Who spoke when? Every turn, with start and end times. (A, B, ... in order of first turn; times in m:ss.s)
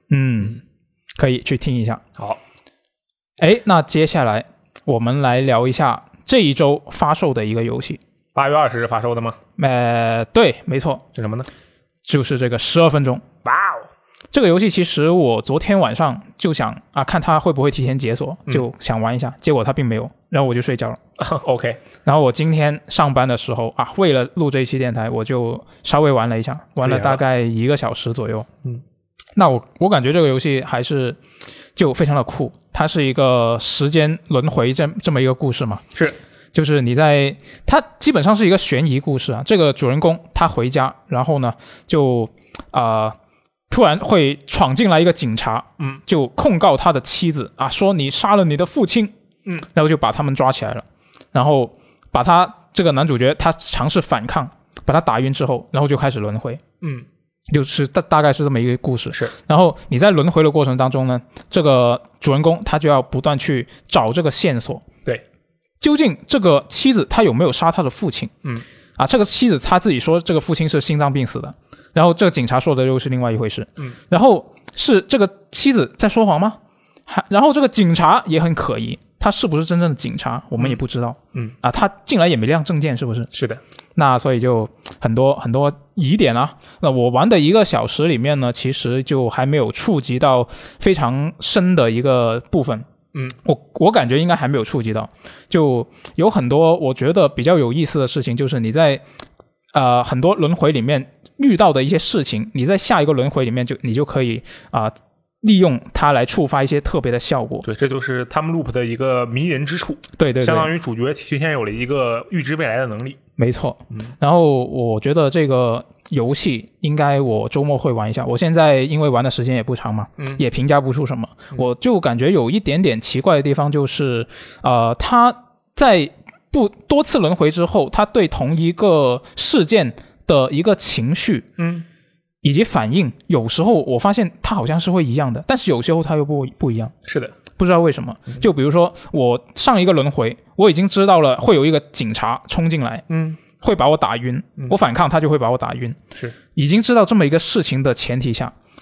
0:00.1-0:00.6 A
0:01.2-0:02.0 A
0:03.4-0:08.0 A
0:08.4-0:09.4 B
0:09.6-0:11.0 A
0:11.1-0:11.5 B
0:12.1-0:13.2 A
0:13.4-0:13.9 B
0:14.3-0:21.0 A
0:21.2-0:21.8 B
0:22.0-0:28.5 A
0:26.8-0:27.2 B
0:29.4-0:31.2 A
0:31.8-0:35.8 A
0:36.5-0:43.2 A
0:43.7-0:56.6 A
0:56.8-0:57.1 B
0:57.5-1:04.9 A
1:05.8-1:08.3 A
1:09.0-1:23.3 A
1:23.3-1:23.6 B
1:24.0-1:32.9 A
1:33.4-1:39.0 A
1:39.7-1:47.6 A
1:47.6-1:53.2 B
1:50.2-1:50.7 A
1:53.4-2:11.5 A
2:11.6-2:11.8 B
2:12.4-2:16.9 A
2:17.0-2:17.3 B
2:17.6-2:26.0 A
2:23.1-2:23.4 B
2:26.5-2:28.5 A